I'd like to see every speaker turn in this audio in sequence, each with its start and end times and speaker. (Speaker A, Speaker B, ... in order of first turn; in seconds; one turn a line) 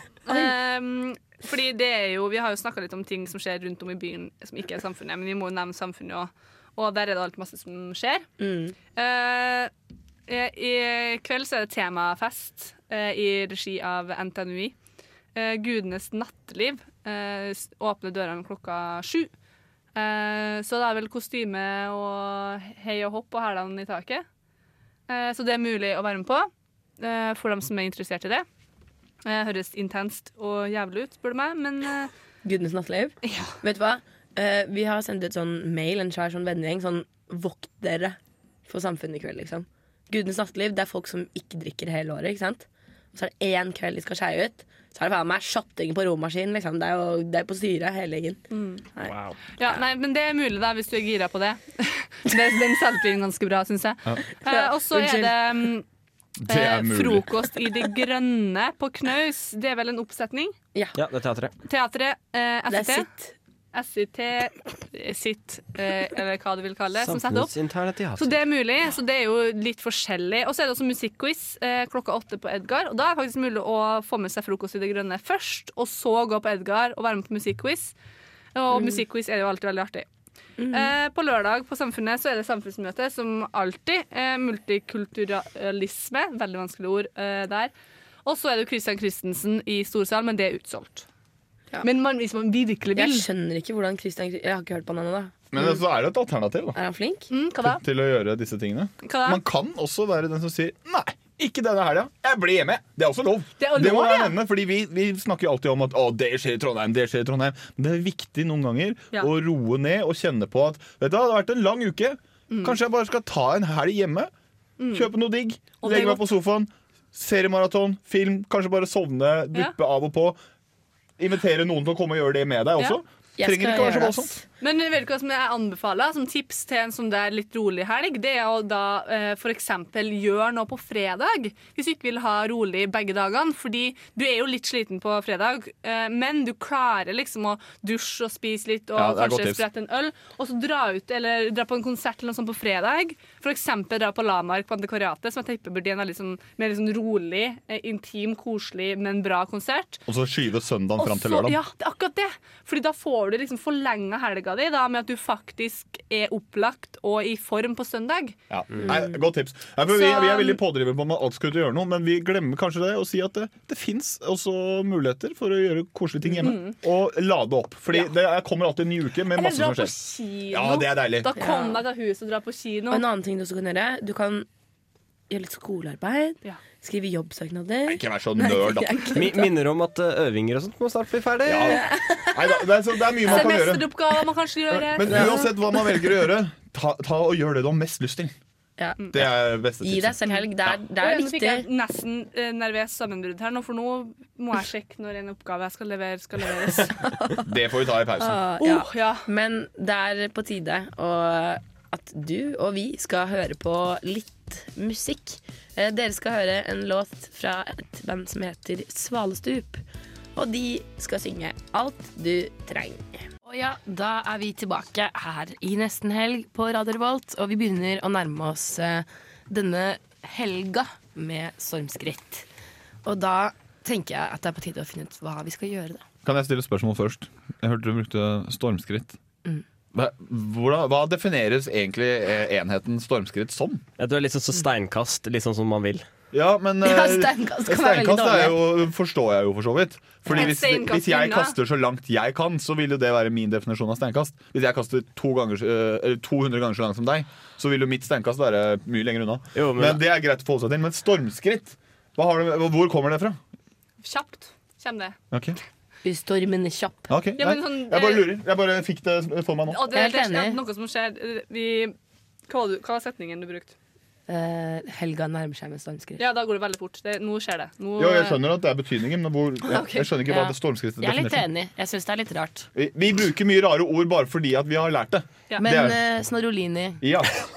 Speaker A: 0.3-8.3
Speaker B: 8.4-8.8
Speaker A: 8.9-9.7
Speaker A: 10.3-14.7
Speaker A: 15.3-19.3
Speaker A: 19.9-24.2
Speaker A: 25.1-28.4
Speaker A: 29.2-32.1
Speaker B: 32.4-48.4
Speaker A: 33.2-33.5
Speaker A: 48.5-48.9
Speaker C: 49.0-49.4
Speaker A: 49.6-55.9
Speaker B: 54.5-55.4
Speaker D: 56.4-57.3
Speaker A: 56.5-60.5
Speaker C: 61.0-61.5
Speaker A: 61.6-63.1
Speaker B: 62.7-63.3
Speaker A: 63.7-67.5
Speaker C: 67.0-68.4
Speaker A: 68.2-77.9
Speaker A: 78.5-80.1
Speaker B: 78.7-79.0
Speaker B: 80.6-80.9
Speaker A: 80.7-87.7
Speaker A: 88.2-91.1
Speaker A: 91.8-93.3
Speaker B: 93.0-95.7
Speaker D: 95.5-96.8
Speaker B: 96.8-97.3
Speaker A: 97.3-97.8
Speaker D: 97.6-114.3
Speaker A: 99.0-99.4
Speaker A: 103.6-104.4
Speaker A: 112.5-112.8
Speaker A: 114.8-115.1
Speaker D: 114.9-120.4
Speaker A: 115.8-116.2
Speaker D: 121.2-124.3
Speaker B: 123.4-124.4
Speaker A: 124.6-150.0
Speaker D: 138.9-139.7
Speaker D: 150.1-151.6
Speaker A: 151.0-158.4
Speaker D: 158.5-169.9
Speaker A: 159.8-160.6
Speaker A: 166.4-166.8
Speaker A: 169.3-173.0
Speaker D: 170.5-171.3
Speaker B: 171.4-171.8
Speaker B: 172.9-174.5
Speaker B: 175.3-179.5
Speaker D: 177.9-179.1
Speaker C: 179.2-181.8
Speaker D: 181.4-183.9
Speaker B: 181.8-182.6
Speaker B: 183.2-183.5
Speaker A: 183.3-185.3
Speaker D: 184.7-188.3
Speaker B: 185.1-186.1
Speaker B: 188.8-189.2
Speaker D: 189.1-190.7
Speaker B: 189.8-191.7
Speaker A: 191.0-197.0
Speaker D: 197.4-198.4
Speaker B: 198.2-209.8
Speaker A: 198.6-199.3
Speaker B: 210.4-222.5
Speaker B: 223.1-226.1
Speaker D: 226.2-229.2
Speaker D: 229.9-233.8
Speaker C: 234.0-236.1
Speaker D: 236.3-253.4
Speaker B: 236.8-238.8
Speaker A: 240.3-241.6
Speaker C: 249.6-250.0
Speaker A: 254.0-255.2
Speaker D: 255.3-255.6
Speaker B: 256.0-257.1
Speaker D: 257.1-259.8
Speaker A: 257.4-258.3
Speaker A: 259.7-261.9
Speaker B: 259.9-260.6
Speaker A: 262.5-263.7
Speaker B: 264.3-266.2
Speaker A: 266.2-268.4
Speaker D: 268.0-271.4
Speaker A: 269.7-270.0
Speaker B: 270.2-272.7
Speaker D: 272.8-276.0
Speaker B: 275.6-277.0
Speaker D: 277.0-277.4